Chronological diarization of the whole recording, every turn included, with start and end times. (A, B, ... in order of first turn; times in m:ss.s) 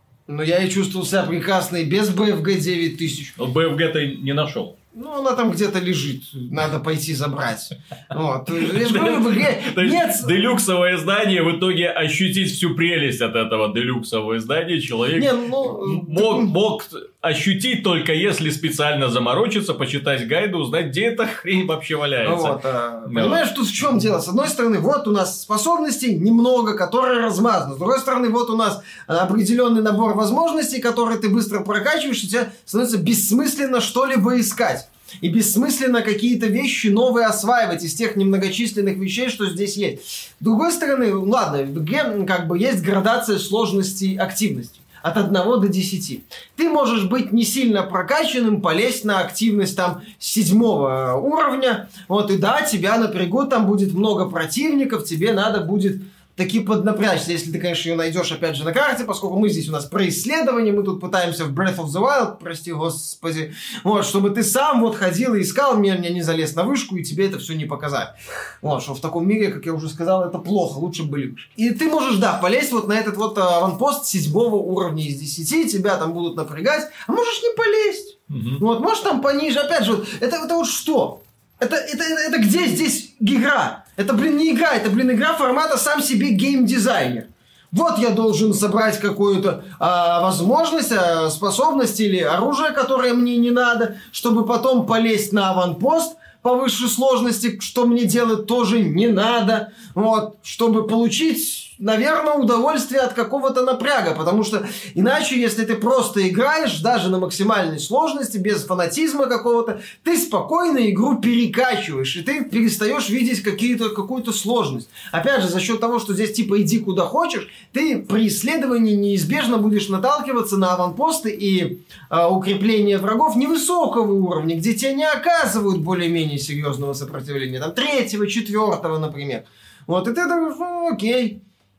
0:00.3-0:03.4 A
0:03.4-0:04.8 B
0:04.9-0:10.4 A
0:08.6-0:23.4 B
0:15.2-0:16.5 A
0:22.2-2:11.4 A
1:18.3-1:18.6 B